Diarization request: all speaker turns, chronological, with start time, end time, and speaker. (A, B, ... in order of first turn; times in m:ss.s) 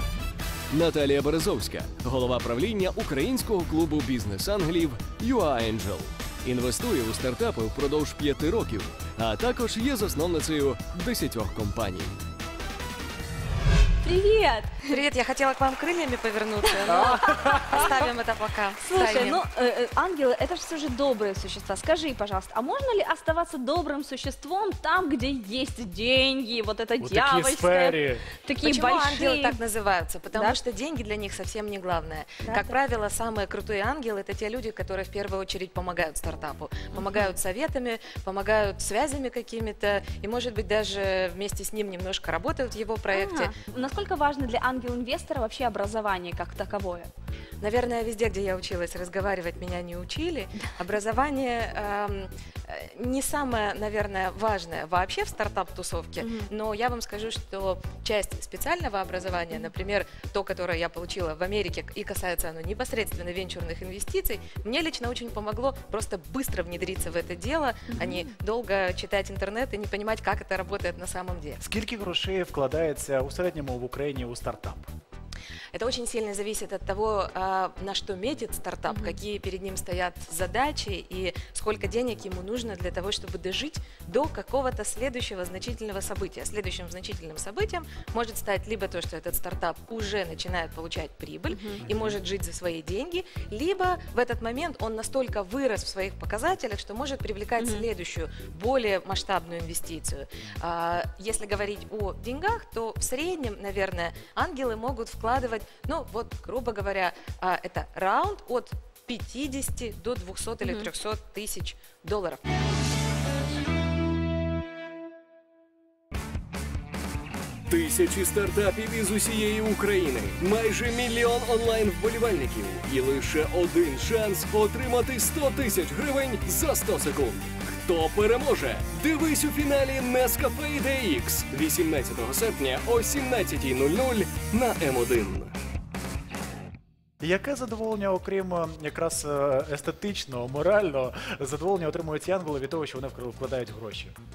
0:00.7-0:12.2 A
0:14.0-0:15.0 B
0:14.8-0:19.4 C
0:16.8-0:17.9 B
0:16.9-0:17.8 D
0:18.8-0:29.6 B
0:27.0-0:28.3 D
0:28.6-0:43.5 C
0:32.4-0:32.7 B
0:36.9-0:37.3 B
0:43.1-0:47.1 B
0:47.6-1:11.6 C
0:56.2-0:56.5 B
1:08.0-1:08.2 B
1:11.6-1:14.8 D
1:15.7-1:52.4 C
1:18.9-1:19.2 B
1:31.5-1:31.8 B
1:37.6-1:37.8 B
1:50.6-1:50.9 B
1:57.7-2:15.5 A
2:17.2-2:24.1 D